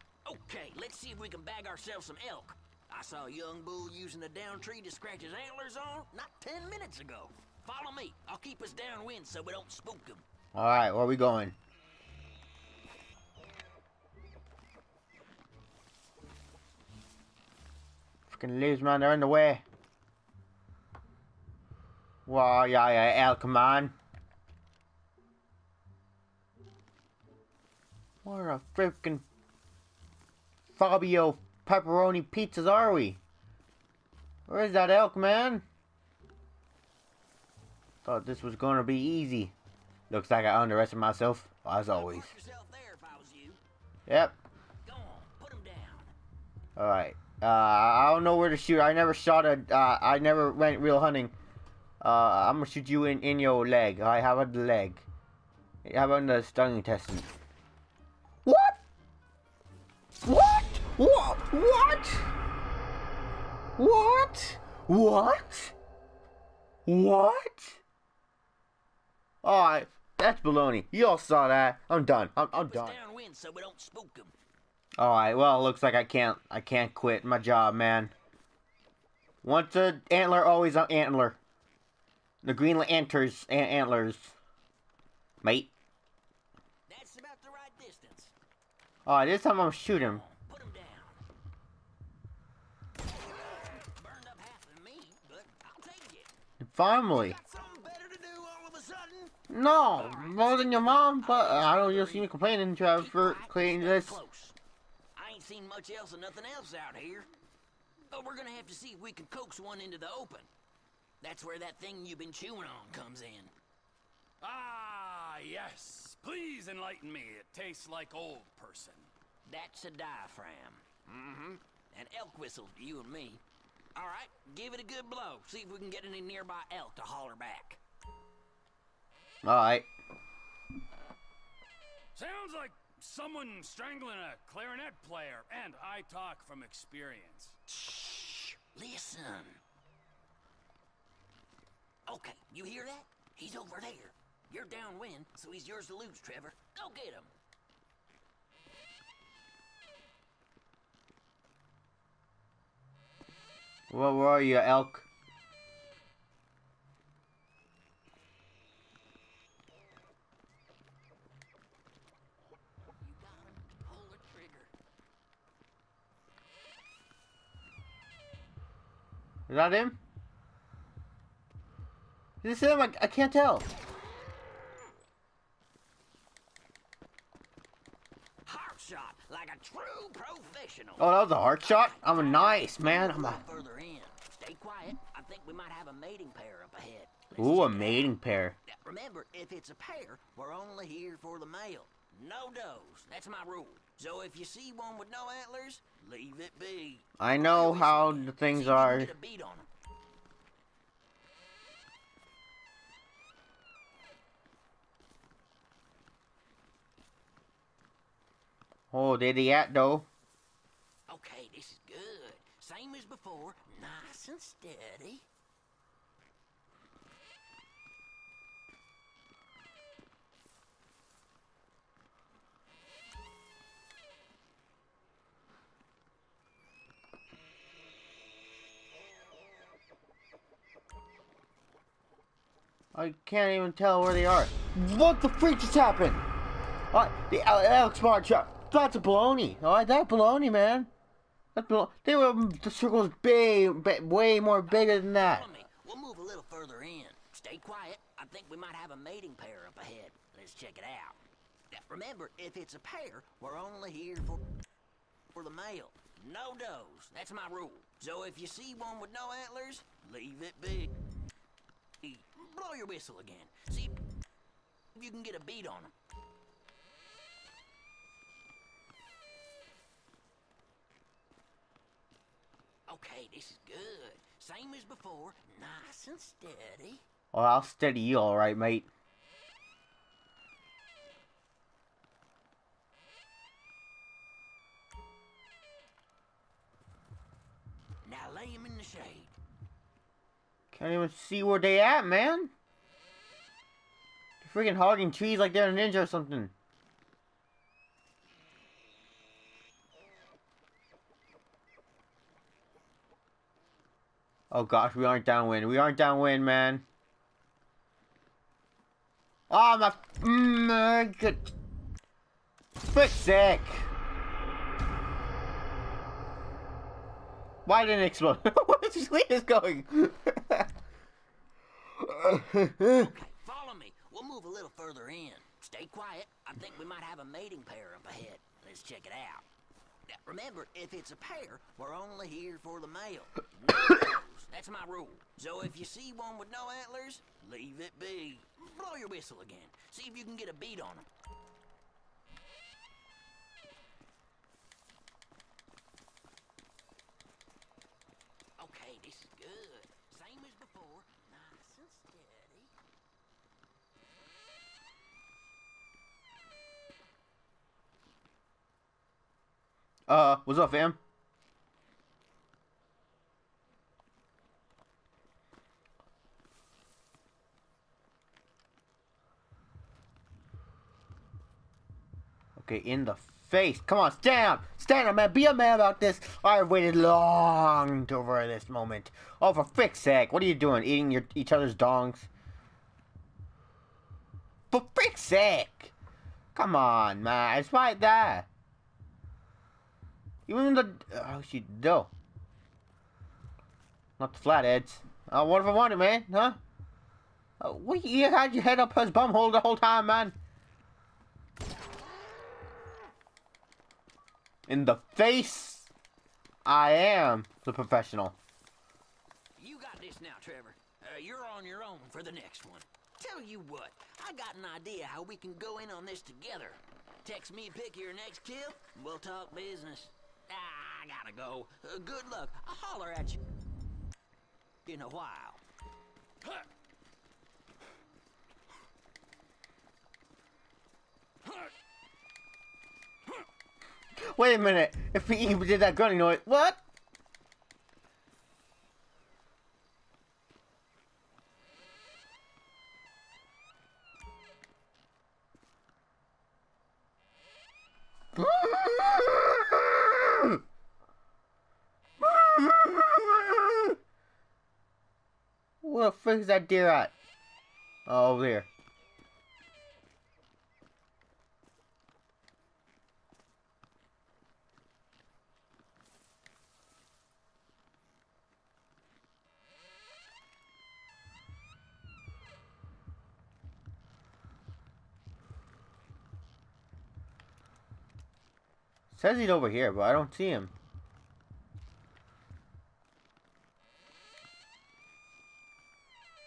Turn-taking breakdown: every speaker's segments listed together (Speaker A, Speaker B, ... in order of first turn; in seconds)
Speaker A: 0.2-10.2, 41.9-43.6, 44.8-46.1, 72.5-74.3, 86.9-88.3, 89.9-91.2, 93.0-96.3, 97.1-99.3, 99.9-102.3, 102.9-104.5, 105.1-107.3, 108.1-110.5, 111.2-113.5, 119.4-120.8, 121.9-123.4, 123.9-127.8, 137.7-139.6, 142.1-147.3, 163.0-164.7, 178.4-188.1, 188.7-199.7, 211.1-215.2, 244.7-251.2, 251.7-254.4, 255.3-261.0, 262.0-264.0, 264.9-265.9, 272.9-277.0, 288.0-289.4, 322.9-329.4, 330.1-341.1, 348.6-352.7, 409.6-423.4, 424.9-425.6
Speaker B: 10.5-11.5, 18.3-19.6, 22.2-23.9, 28.2-29.2, 30.7-33.2, 34.5-35.6, 38.0-39.5, 40.1-42.3, 44.1-44.4, 46.8-51.3, 52.0-55.0, 55.8-57.3, 58.4-58.8, 60.2-62.3, 63.8-65.7, 66.8-67.8, 69.4-73.0, 75.0-78.1, 79.4-81.4, 82.4-84.3, 85.4-85.7, 89.0-90.2, 96.6-97.4, 99.5-104.2, 129.4-129.9, 153.9-155.1, 169.5-170.0, 172.4-173.6, 181.0-183.4, 187.3-188.6, 197.2-199.1, 208.9-210.1, 232.9-236.2, 236.9-240.9, 241.5-245.5, 277.3-278.9, 290.7-292.5, 294.4-296.5, 304.5-306.8, 309.5-311.4, 312.9-313.9, 317.6-320.7, 322.0-323.1, 360.1-361.0, 372.6-382.3, 384.7-385.9, 386.5-388.5, 390.5-392.1, 394.2-396.6, 397.6-400.4, 404.7-405.9, 406.6-408.4, 434.1-436.8, 448.3-450.6, 452.2-453.9, 455.8-457.1, 458.1-458.7, 479.1-480.7
Speaker C: 114.4-119.1, 132.1-137.6, 426.4-426.7, 431.4-431.7